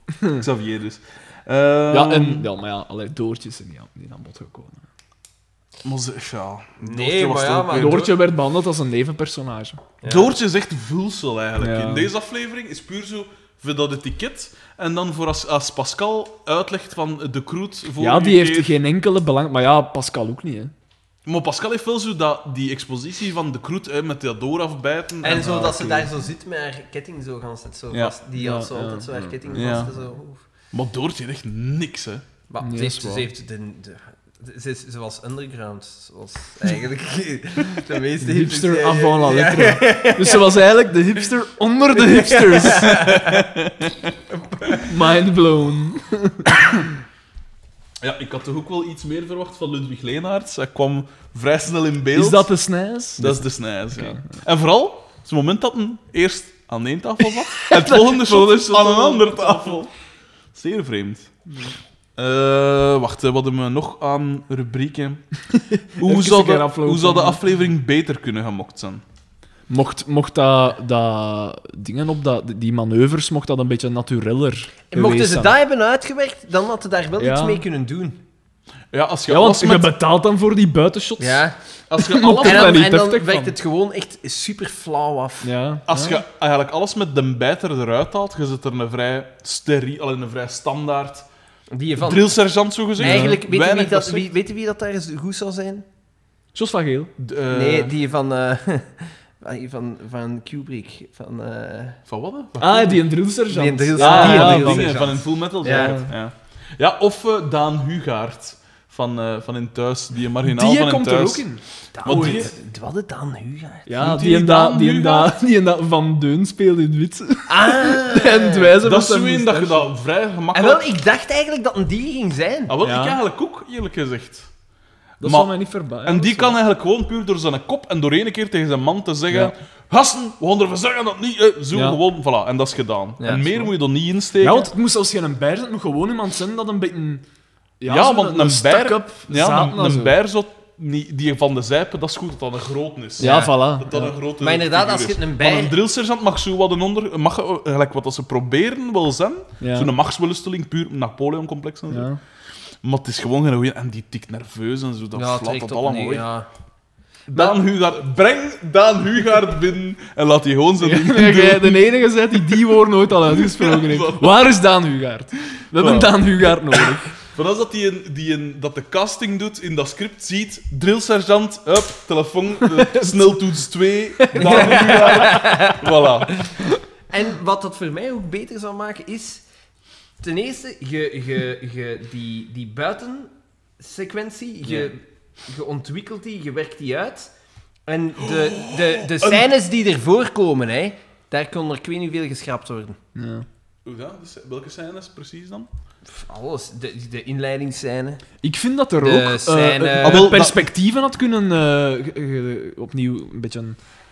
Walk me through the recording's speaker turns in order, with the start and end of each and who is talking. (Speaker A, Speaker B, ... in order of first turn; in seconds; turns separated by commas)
Speaker A: 0.2-2.5, Speaker B: 1.9-4.8, Speaker A: 5.8-8.1, Speaker C: 6.8-8.2, Speaker B: 7.7-9.8, Speaker C: 10.0-10.3, Speaker A: 10.1-18.7, Speaker B: 11.6-12.1, Speaker B: 18.0-20.7, Speaker A: 21.2-25.9, Speaker C: 25.2-30.4, Speaker B: 25.4-26.1, Speaker B: 28.4-29.7, Speaker A: 29.5-29.9, Speaker A: 30.7-32.2, Speaker C: 32.5-40.6, Speaker B: 32.6-33.3, Speaker B: 38.2-43.1, Speaker C: 42.0-43.5, Speaker A: 42.9-44.1, Speaker C: 44.3-44.9, Speaker B: 44.8-46.9, Speaker A: 48.0-52.5, Speaker B: 52.1-54.3, Speaker A: 53.2-59.9, Speaker B: 57.5-59.8, Speaker A: 60.5-61.3, Speaker B: 61.5-61.8, Speaker A: 62.2-65.2, Speaker B: 65.6-67.4, Speaker A: 66.0-69.0, Speaker B: 69.7-75.5, Speaker C: 74.9-78.2, Speaker B: 77.2-77.6, Speaker A: 78.9-79.9, Speaker B: 79.3-83.5, Speaker C: 81.2-81.5, Speaker A: 81.9-82.8, Speaker C: 82.4-85.5, Speaker B: 85.4-86.2, Speaker A: 85.9-91.3, Speaker C: 91.7-92.3, Speaker A: 92.0-94.3, Speaker C: 93.0-95.8, Speaker B: 93.0-93.4, Speaker B: 96.5-97.1, Speaker A: 97.2-97.9, Speaker C: 97.5-102.0, Speaker A: 102.1-103.0, Speaker B: 102.6-105.1, Speaker C: 103.5-106.0, Speaker A: 104.0-111.4, Speaker B: 105.6-106.1, Speaker B: 110.4-112.5, Speaker C: 111.9-113.9, Speaker A: 112.0-112.5, Speaker B: 113.9-119.9, Speaker A: 114.0-115.3, Speaker C: 117.5-118.7, Speaker A: 118.8-120.9, Speaker C: 120.5-122.7, Speaker A: 122.7-124.5, Speaker B: 122.8-123.2, Speaker A: 125.2-125.5, Speaker B: 125.2-126.6, Speaker A: 126.0-134.7, Speaker B: 131.7-132.0, Speaker C: 133.2-133.7, Speaker B: 134.4-137.2, Speaker B: 137.8-140.2, Speaker A: 137.8-152.1, Speaker C: 143.2-143.5, Speaker B: 143.2-144.1, Speaker C: 144.4-145.7, Speaker B: 149.6-149.9, Speaker B: 151.9-152.2, Speaker A: 152.8-156.2, Speaker C: 155.1-156.5, Speaker A: 157.3-164.3, Speaker B: 160.8-167.1, Speaker A: 165.8-176.4, Speaker B: 172.6-173.2, Speaker B: 174.2-175.6, Speaker C: 174.3-175.8, Speaker C: 177.1-179.4, Speaker C: 180.2-187.3, Speaker C: 187.9-193.0, Speaker A: 188.2-189.5, Speaker B: 193.1-193.4, Speaker A: 193.8-195.7, Speaker C: 196.1-198.2, Speaker B: 198.4-203.8, Speaker C: 199.0-200.3, Speaker A: 200.0-200.7